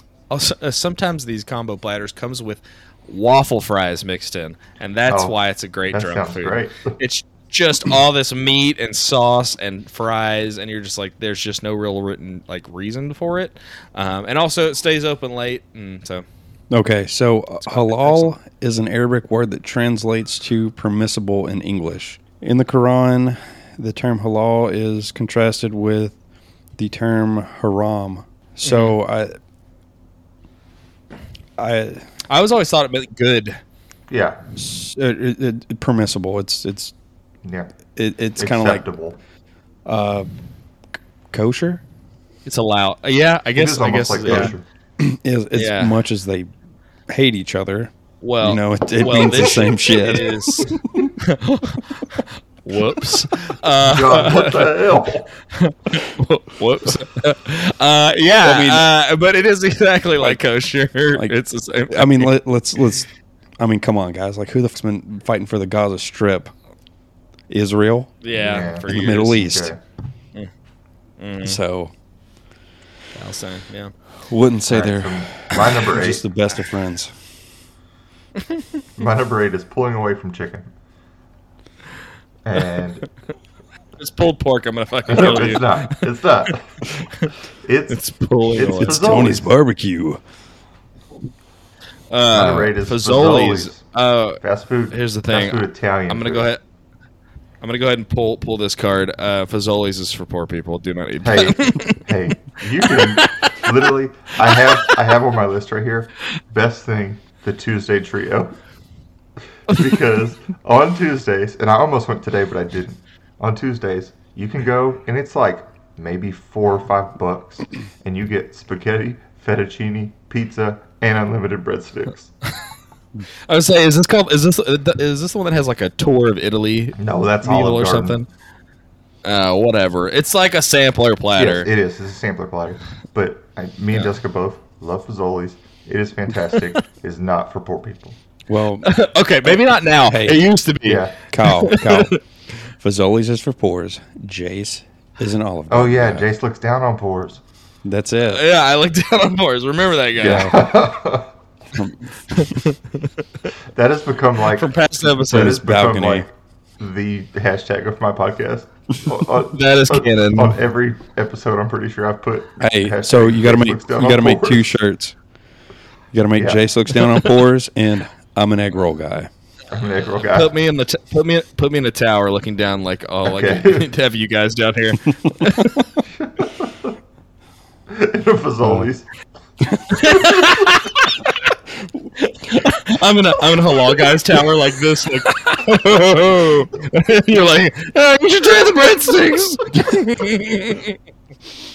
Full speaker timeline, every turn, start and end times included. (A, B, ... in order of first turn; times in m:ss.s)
0:00.3-0:16.2 A
0:05.1-0:05.4 B
0:05.9-0:07.0 B
0:16.7-0:26.2 C
0:17.7-0:18.4 A
0:26.8-0:29.4 C
0:28.6-0:29.0 A
0:31.6-0:32.1 C
0:32.3-0:33.6 A
0:34.1-0:34.4 B
0:34.6-0:36.9 C
0:37.4-0:37.7 B
0:38.0-0:38.8 C
0:38.4-0:39.2 B
0:39.9-0:40.3 C
0:41.3-0:41.8 C
0:42.4-0:44.5 A
0:43.6-0:44.6 B
0:44.3-0:46.5 C
0:45.5-0:46.0 A
0:47.1-0:51.1 C
0:48.2-0:55.0 A
0:53.8-0:55.3 B
0:55.5-1:02.4 A
0:58.4-0:58.9 C
1:01.9-1:03.1 C
1:03.6-1:06.5 C
1:07.5-1:08.2 C
1:08.2-1:09.5 A
1:08.3-1:09.8 B
1:08.9-1:09.7 C
1:11.2-1:11.6 A
1:11.4-1:11.9 C
1:13.2-1:13.9 A
1:14.3-1:17.1 C
1:14.7-1:16.2 B
1:19.0-1:20.7 B
1:22.4-1:23.1 B
1:24.0-1:27.3 A
1:25.1-1:26.8 B
1:27.6-1:28.0 B
1:27.9-1:29.1 A
1:28.5-1:29.5 B
1:28.7-1:30.2 C
1:32.1-1:36.6 A
1:32.3-1:33.8 B
1:34.4-1:36.5 B
1:37.6-1:42.1 A
1:41.2-1:48.6 B
1:42.8-1:43.7 A
1:44.5-1:45.0 A
1:49.7-2:02.3 B
2:03.5-2:08.3 A
2:07.0-2:08.2 B
2:09.2-2:11.7 A
2:11.4-2:18.2 B
2:18.5-2:18.9 C
2:18.8-2:22.2 A
2:20.1-2:20.4 C
2:20.8-2:21.2 B
2:21.3-2:22.2 C
2:22.8-2:26.3 C
2:25.7-2:27.4 B
2:27.8-2:28.4 C
2:28.3-2:30.6 A
2:30.2-2:31.3 B
2:30.2-2:30.7 C
2:31.8-2:32.5 C
2:32.3-2:33.1 A
2:33.7-2:44.7 B
2:34.5-2:35.6 A
2:35.3-2:36.3 C
2:39.4-2:40.6 A
2:42.6-2:45.2 C
2:46.1-2:49.3 C
2:46.4-2:46.6 B
2:49.7-2:50.6 B
2:50.3-2:55.9 A
2:53.2-2:53.9 B
2:56.2-2:57.0 B
2:57.9-2:59.1 B
2:59.9-3:01.5 A
3:00.0-3:00.4 B
3:02.2-3:11.0 A